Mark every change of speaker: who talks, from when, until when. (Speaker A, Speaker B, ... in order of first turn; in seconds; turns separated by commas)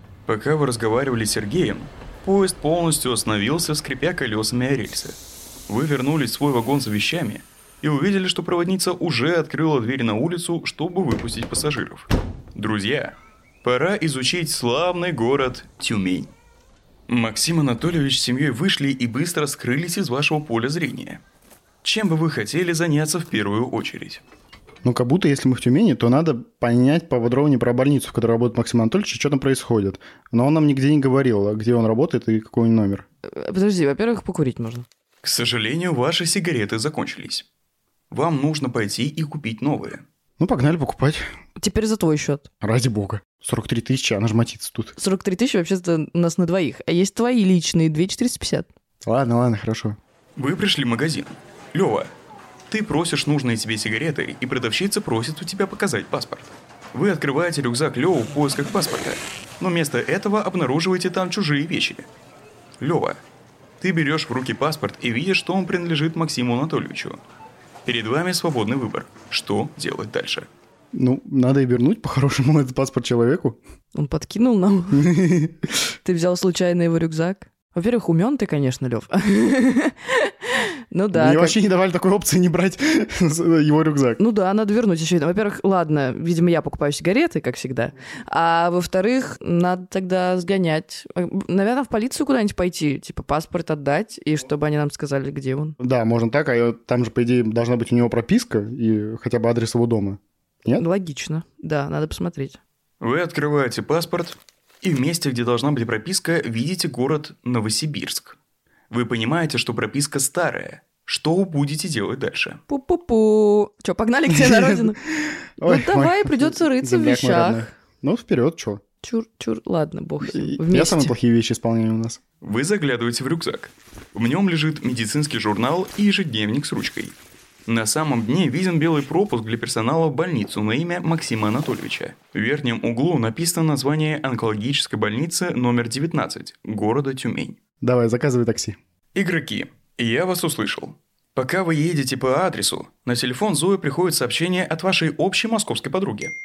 Speaker A: 0.3-5.2, Speaker A: 5.7-16.3, Speaker A: 17.1-21.2, Speaker A: 21.8-24.2, Speaker B: 24.8-33.1, Speaker C: 33.3-34.9, Speaker A: 35.2-37.5, Speaker A: 38.1-40.0, Speaker B: 40.4-41.2, Speaker C: 41.6-42.5, Speaker B: 42.6-45.0, Speaker C: 45.0-48.7, Speaker B: 49.0-50.0, Speaker A: 50.4-52.1, Speaker A: 52.7-62.1, Speaker A: 62.8-63.2, Speaker A: 63.8-67.2, Speaker A: 67.8-70.5, Speaker B: 70.9-73.6, Speaker C: 73.9-75.1, Speaker B: 74.9-75.7, Speaker C: 76.0-81.5, Speaker B: 81.1-84.2, Speaker C: 84.2-95.8, Speaker B: 95.8-100.8, Speaker C: 100.8-102.6, Speaker A: 103.0-108.4, Speaker A: 108.9-112.6, Speaker C: 112.7-115.0, Speaker B: 114.3-118.8, Speaker C: 115.7-117.7, Speaker C: 119.0-121.1, Speaker B: 120.2-122.2, Speaker A: 122.4-127.2, Speaker A: 127.7-137.6, Speaker B: 137.8-138.8, Speaker A: 139.2-146.3